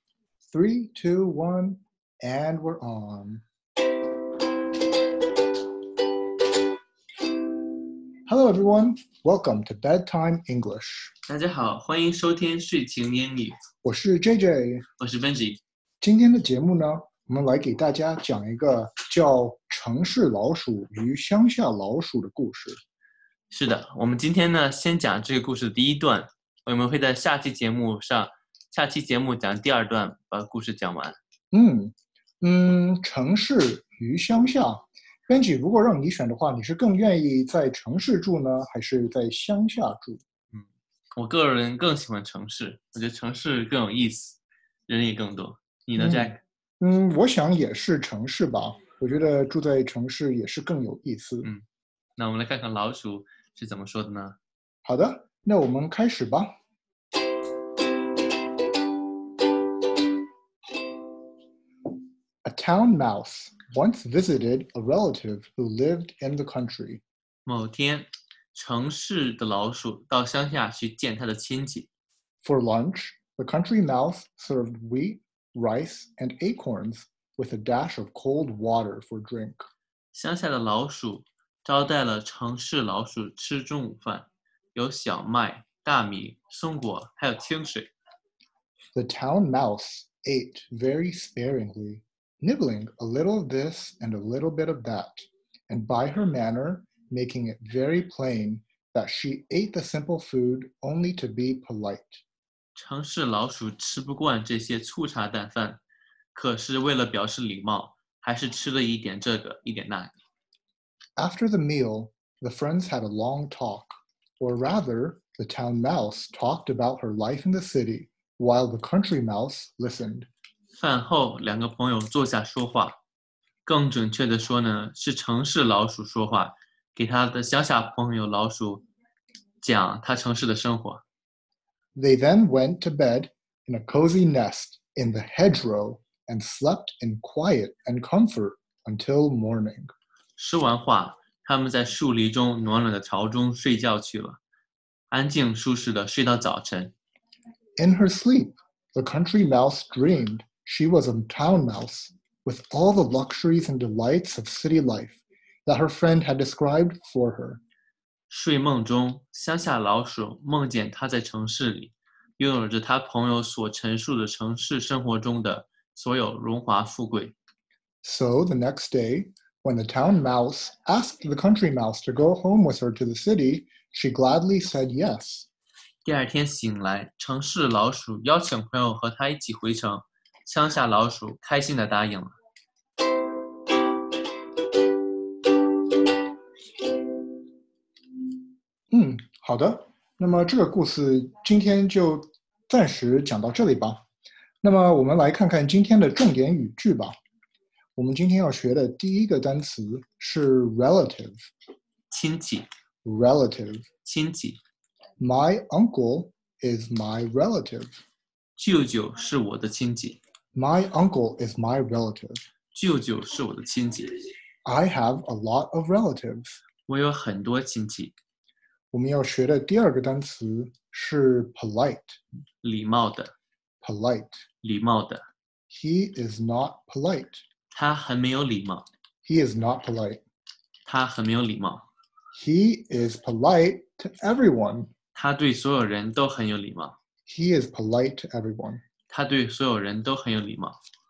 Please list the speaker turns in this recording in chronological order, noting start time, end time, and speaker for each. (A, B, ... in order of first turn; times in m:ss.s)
0:00.5-0:03.4 A
0:08.3-0:11.1 A
0:11.3-0:13.6 B
0:13.8-0:14.8 A
0:15.0-0:15.6 B
0:16.0-0:22.8 A
0:23.5-0:31.2 B
0:31.5-0:40.2 A
0:40.5-0:46.4 B
0:46.0-0:51.5 A
0:52.2-0:54.4 B
0:54.8-0:56.5 A
1:02.4-1:07.0 A
1:07.4-1:11.9 B
1:12.4-1:19.6 A
1:20.1-1:27.9 B
1:28.9-1:42.2 A
1:42.8-1:45.8 B
1:46.3-1:50.1 B
1:51.2-2:00.3 A
2:00.8-2:03.0 B
2:03.6-2:08.8 B
2:09.6-2:11.0 B
2:12.0-2:19.9 A
2:20.4-2:24.4 B
2:25.1-2:26.9 B
2:27.8-2:37.6 A
2:38.3-2:47.3 B
2:48.0-2:55.5 A
2:56.0-3:02.3 B
3:08.9-3:14.0 A
3:14.6-3:17.1 A
3:18.0-3:21.5 A
3:22.1-3:22.7 B
3:23.0-3:23.8 A
3:24.0-3:24.6 B
3:25.2-3:28.0 A
3:28.6-3:30.2 B
3:30.5-3:32.4 A
3:32.7-3:34.2 B
3:34.6-3:36.6 A
3:36.9-3:38.1 B
3:38.9-3:42.2 A
3:42.6-3:43.3 B
3:43.8-3:44.4 A
3:44.6-3:45.2 B
3:45.7-3:47.4 A
3:47.7-3:48.9 B
3:49.2-3:50.2 A
3:50.8-3:51.8 B
3:52.3-3:54.9 A
3:55.1-3:57.0 B
3:57.2-3:58.8 A
3:59.1-4:00.8 B